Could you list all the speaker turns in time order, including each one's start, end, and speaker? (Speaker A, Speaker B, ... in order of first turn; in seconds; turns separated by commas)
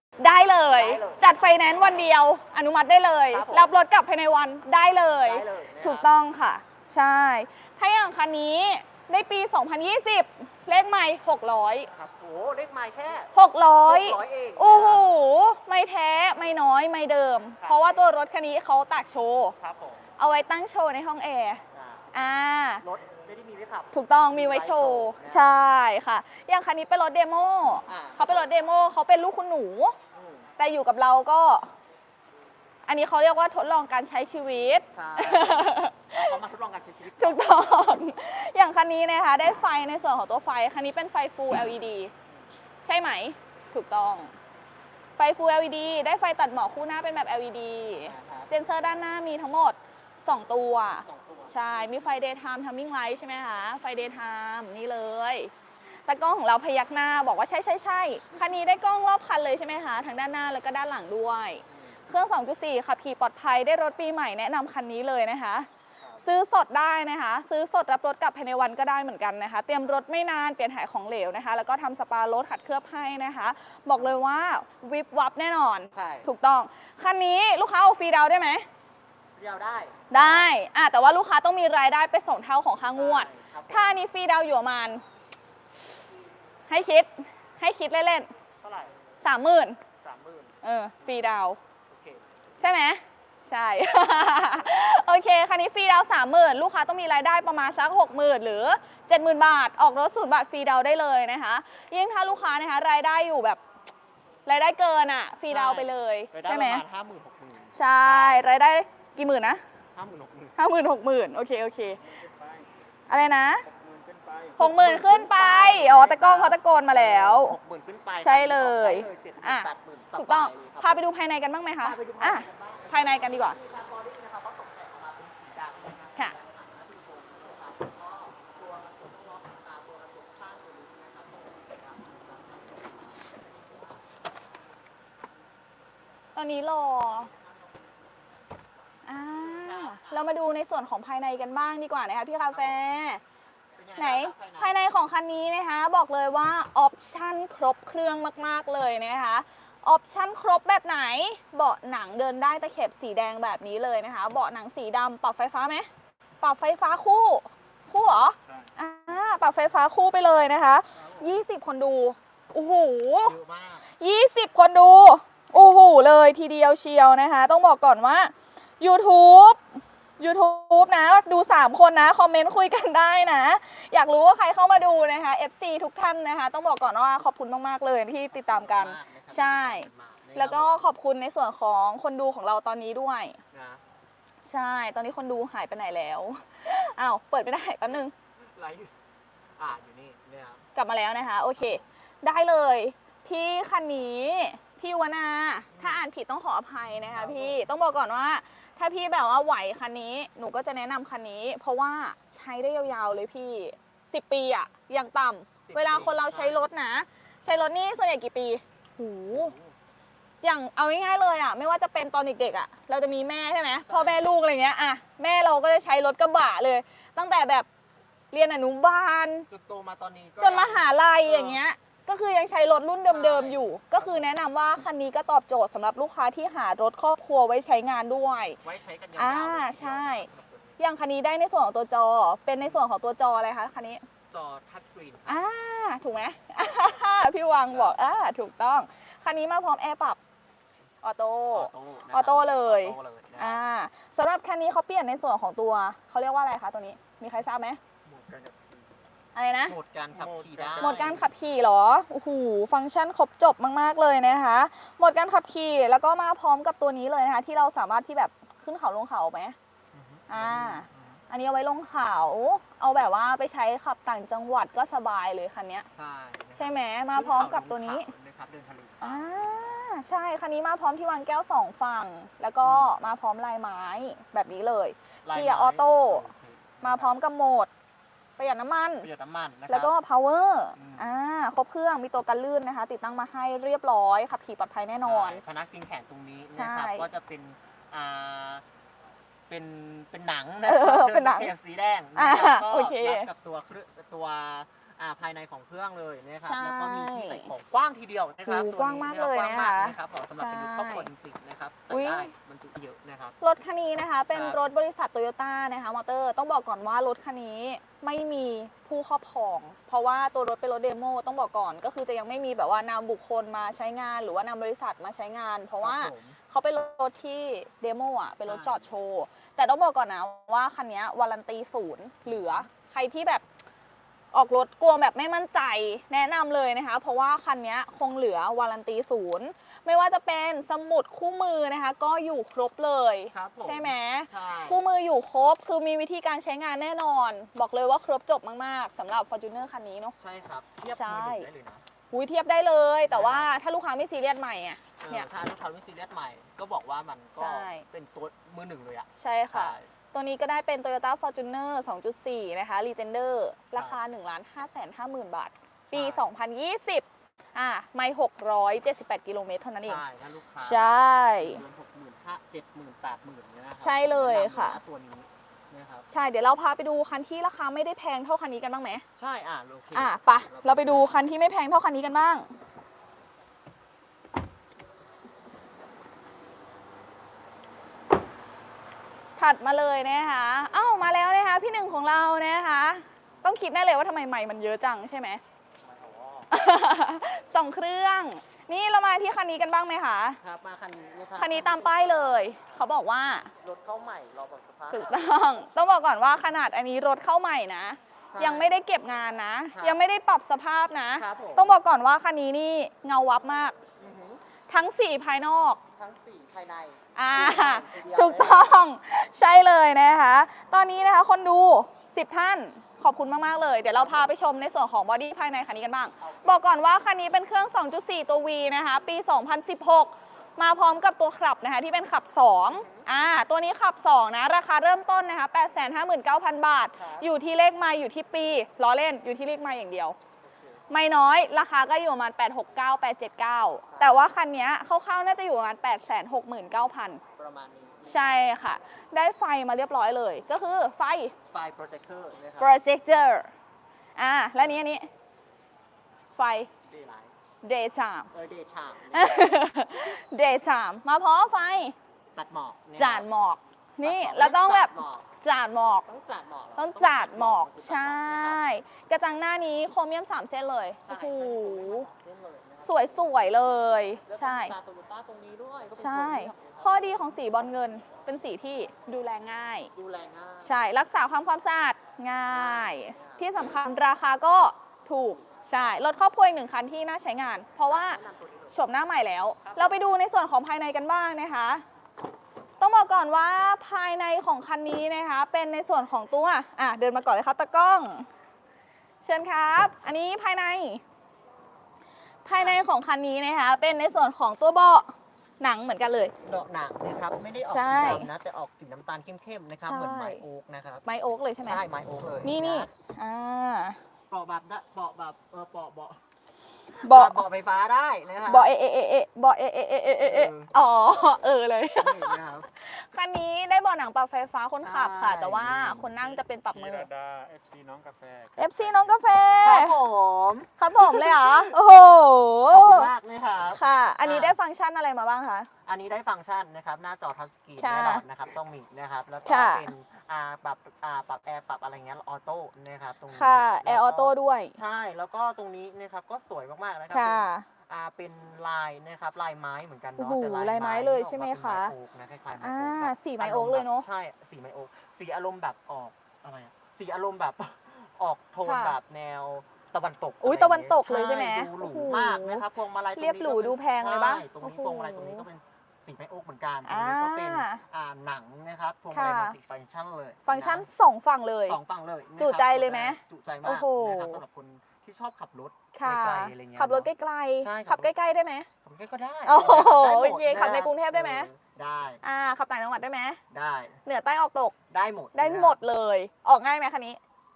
Speaker A: 0.2-11.9, Speaker B: 0.7-1.3, Speaker B: 3.3-3.7, Speaker B: 5.2-6.1, Speaker B: 11.9-13.3, Speaker A: 13.3-19.6, Speaker B: 13.8-15.1, Speaker B: 17.6-18.1, Speaker B: 19.6-20.1, Speaker A: 20.2-22.8, Speaker B: 21.7-22.1, Speaker B: 22.8-25.6, Speaker A: 23.9-30.0, Speaker B: 27.9-28.5, Speaker B: 30.1-30.5, Speaker A: 30.6-31.7, Speaker A: 32.9-36.4, Speaker B: 34.9-37.8, Speaker A: 37.2-42.1, Speaker A: 42.8-44.3, Speaker A: 45.2-55.5, Speaker B: 48.1-48.5, Speaker B: 51.0-52.1, Speaker A: 56.1-65.7, Speaker B: 61.7-62.0, Speaker B: 66.0-66.2, Speaker A: 66.2-78.7, Speaker B: 75.9-76.3, Speaker B: 79.4-80.5, Speaker A: 80.1-85.0, Speaker B: 82.9-84.0, Speaker A: 86.7-88.3, Speaker B: 88.6-89.0, Speaker A: 89.2-89.8, Speaker B: 90.0-92.2, Speaker A: 90.6-91.6, Speaker A: 92.6-103.6, Speaker A: 104.5-106.8, Speaker B: 105.5-108.5, Speaker A: 107.7-109.6, Speaker B: 110.0-110.6, Speaker A: 110.6-112.0, Speaker C: 112.1-112.7, Speaker A: 113.1-113.7, Speaker C: 113.7-114.6, Speaker A: 114.6-117.6, Speaker B: 114.6-121.0, Speaker A: 118.2-123.6, Speaker B: 121.8-134.0, Speaker A: 136.3-137.3, Speaker B: 137.1-138.2, Speaker A: 139.1-143.2, Speaker B: 139.1-140.3, Speaker B: 142.5-142.8, Speaker B: 143.8-144.8, Speaker A: 144.0-155.9, Speaker A: 156.4-163.3, Speaker B: 160.9-161.4, Speaker B: 163.2-163.9, Speaker A: 163.9-169.6, Speaker A: 170.2-183.4, Speaker B: 178.3-180.8, Speaker B: 183.5-183.8, Speaker A: 184.4-188.1, Speaker B: 188.5-188.9, Speaker B: 189.6-190.7, Speaker A: 190.8-209.6, Speaker B: 195.7-196.1, Speaker B: 197.1-197.6, Speaker B: 205.7-206.7, Speaker B: 209.3-209.8, Speaker A: 210.4-217.7, Speaker B: 213.8-214.2, Speaker A: 218.3-219.5, Speaker B: 219.5-221.6, Speaker A: 220.4-228.6, Speaker B: 223.1-224.3, Speaker B: 228.6-230.8, Speaker A: 229.2-234.0, Speaker B: 232.6-232.9, Speaker B: 234.3-235.4, Speaker A: 235.3-240.2, Speaker B: 237.7-238.0, Speaker A: 241.0-247.8, Speaker B: 241.5-243.6, Speaker C: 248.1-248.9, Speaker A: 249.3-249.8, Speaker B: 249.7-251.3, Speaker C: 250.1-251.2, Speaker A: 250.8-259.6, Speaker B: 259.9-261.2, Speaker A: 260.3-265.9, Speaker B: 265.9-269.8, Speaker A: 266.6-268.1, Speaker A: 269.0-276.3, Speaker B: 272.6-272.9, Speaker B: 275.2-277.2, Speaker A: 276.8-277.7, Speaker A: 278.4-279.1, Speaker B: 279.0-279.9, Speaker A: 279.7-285.4, Speaker B: 280.8-281.1, Speaker B: 285.0-288.6, Speaker A: 286.5-287.1, Speaker B: 289.5-303.4, Speaker A: 290.6-291.5, Speaker A: 292.2-293.3, Speaker A: 296.4-297.5, Speaker A: 298.5-301.1, Speaker A: 301.9-302.3, Speaker A: 303.4-323.4, Speaker B: 304.3-304.6, Speaker B: 315.8-316.4, Speaker B: 318.4-318.9, Speaker B: 322.2-322.7, Speaker A: 324.3-340.1, Speaker B: 333.3-334.9, Speaker B: 340.2-341.8, Speaker A: 340.9-341.5, Speaker A: 342.1-345.3, Speaker B: 343.1-343.5, Speaker B: 345.0-349.9, Speaker A: 347.4-347.9, Speaker A: 349.2-360.0, Speaker B: 355.9-356.3, Speaker B: 359.8-366.1, Speaker A: 360.6-361.6, Speaker A: 363.8-364.8, Speaker A: 366.1-369.1, Speaker B: 369.2-371.1, Speaker A: 369.9-372.5, Speaker A: 379.4-385.4, Speaker B: 385.8-386.5, Speaker A: 386.5-390.4, Speaker B: 390.4-392.9, Speaker A: 391.4-393.5, Speaker B: 393.6-395.3, Speaker A: 394.9-403.8, Speaker B: 398.3-398.8, Speaker B: 399.7-400.0, Speaker B: 401.1-401.7, Speaker B: 404.0-404.4, Speaker A: 404.7-405.8, Speaker B: 405.8-408.8, Speaker A: 407.2-430.2, Speaker B: 413.9-414.3, Speaker B: 416.2-416.9, Speaker B: 422.6-423.1, Speaker B: 426.9-427.3, Speaker B: 430.4-430.8, Speaker A: 430.9-437.2, Speaker B: 433.9-434.2, Speaker B: 437.4-438.4, Speaker A: 438.1-441.3, Speaker B: 441.5-442.8, Speaker A: 442.6-443.5, Speaker A: 444.2-445.1, Speaker A: 446.4-446.7, Speaker B: 446.9-447.3, Speaker A: 447.6-448.3, Speaker B: 448.3-449.5, Speaker A: 449.1-451.9, Speaker B: 452.4-453.3, Speaker A: 453.0-456.1, Speaker B: 454.0-455.3, Speaker B: 456.1-458.6, Speaker A: 456.8-462.1, Speaker B: 461.1-467.3, Speaker A: 462.8-464.7, Speaker A: 466.0-469.9, Speaker B: 469.9-470.9, Speaker A: 470.6-478.2, Speaker B: 472.5-473.5, Speaker B: 477.9-478.8, Speaker A: 478.7-481.8, Speaker B: 479.6-480.0, Speaker A: 482.8-488.3, Speaker A: 489.2-491.0, Speaker A: 492.4-496.3, Speaker B: 492.6-492.8, Speaker B: 496.4-501.0, Speaker A: 497.7-498.3, Speaker A: 499.8-500.4, Speaker A: 501.1-501.8, Speaker B: 501.6-502.9, Speaker A: 502.4-504.0, Speaker B: 504.3-506.2, Speaker B: 506.9-508.7, Speaker A: 507.0-507.4, Speaker A: 508.4-517.1, Speaker B: 510.2-510.7, Speaker B: 512.0-512.7, Speaker B: 514.8-516.3, Speaker C: 516.7-519.2, Speaker A: 518.6-520.0, Speaker B: 519.6-521.8, Speaker A: 520.8-523.1, Speaker B: 522.7-524.6, Speaker A: 523.8-525.7, Speaker B: 525.9-560.9, Speaker A: 527.8-528.2, Speaker A: 529.5-529.9, Speaker A: 533.3-534.8, Speaker A: 537.1-537.7, Speaker A: 540.2-541.9, Speaker A: 542.6-544.1, Speaker A: 548.6-549.0, Speaker A: 550.4-552.6, Speaker A: 553.2-555.5, Speaker A: 556.9-557.8, Speaker A: 559.1-559.6, Speaker A: 560.5-561.8, Speaker B: 561.7-567.1, Speaker A: 562.4-564.4, Speaker A: 565.9-568.7, Speaker B: 567.6-568.1, Speaker B: 568.8-572.2, Speaker A: 569.5-571.5, Speaker A: 572.2-573.4, Speaker B: 573.5-574.0, Speaker A: 574.1-574.8, Speaker B: 574.9-575.8, Speaker A: 575.4-577.2